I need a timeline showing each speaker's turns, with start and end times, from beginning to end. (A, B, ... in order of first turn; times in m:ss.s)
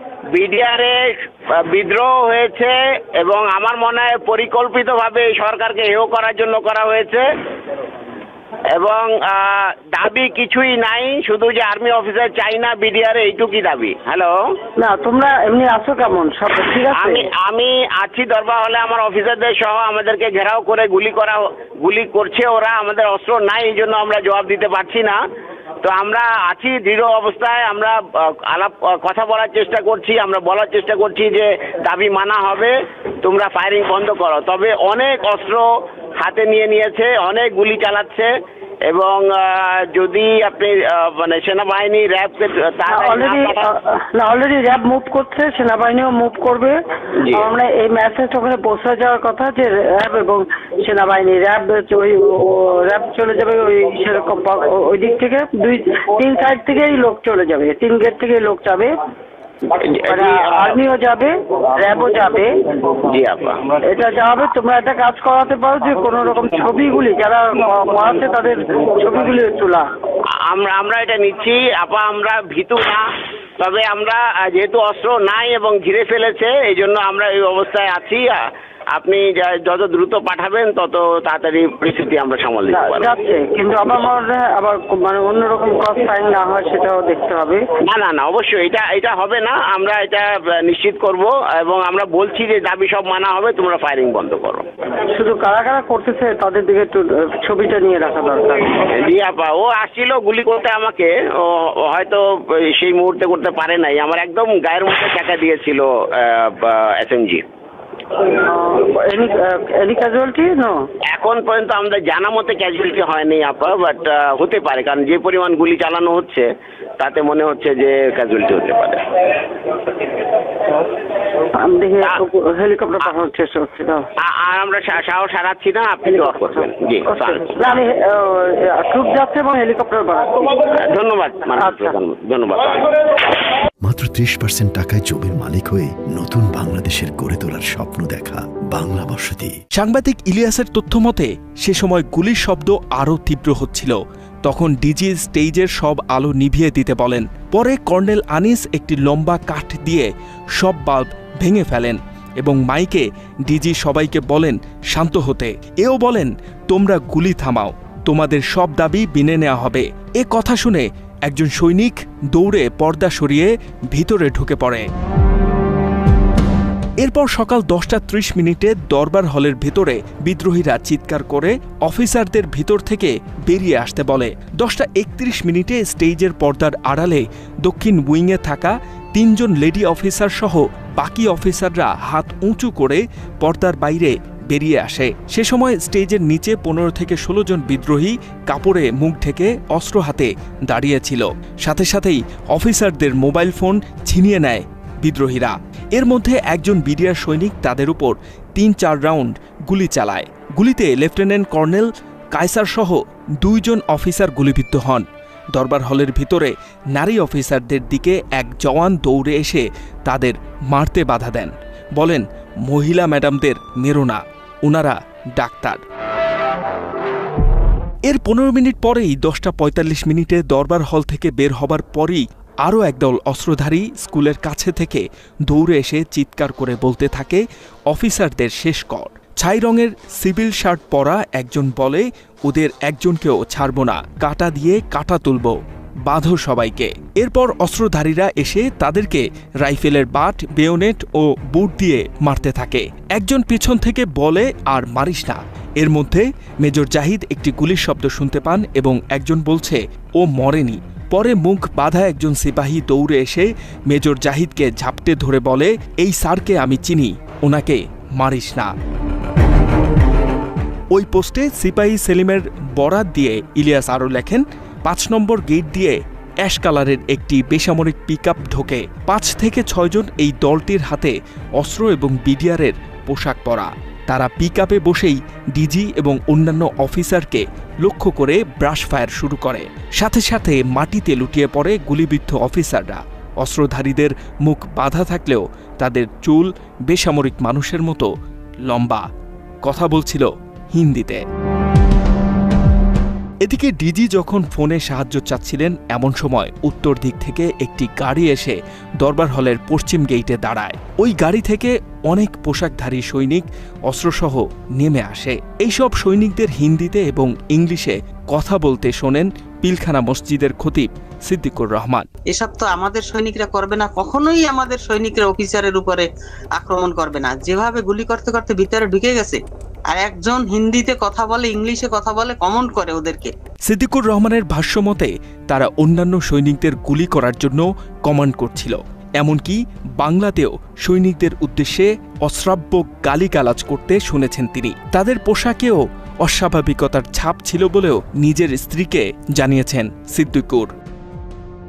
0:00.3-0:07.2 A
0:08.7-0:14.4 A
0:14.8-0:17.3 B
0:17.0-0:25.2 A
0:25.8-0:35.7 A
0:36.2-0:38.3 A
0:38.9-0:43.7 A
0:42.9-0:46.8 B
0:47.3-0:58.9 B
0:59.8-1:00.8 A
1:00.0-1:02.5 B
1:02.9-1:03.6 A
1:03.8-1:09.9 B
1:10.5-1:13.0 A
1:13.6-1:18.4 A
1:18.9-1:23.1 A
1:22.8-1:27.6 B
1:27.8-1:34.6 A
1:35.1-1:38.8 B
1:38.9-1:47.4 A
1:48.4-1:50.9 B
1:51.1-1:56.5 A
1:57.0-1:59.1 A
2:01.5-2:04.0 B
2:04.2-2:07.6 A
2:07.5-2:10.5 B
2:10.8-2:13.0 A
2:11.6-2:12.0 B
2:13.8-2:19.6 C
2:19.8-2:44.8 D
2:47.0-3:35.8 D
3:38.1-4:18.7 D
4:20.9-4:48.1 D
4:48.7-4:49.0 D
4:49.6-4:51.2 D
4:53.4-5:12.1 D
5:12.3-5:23.3 E
5:23.7-5:40.7 D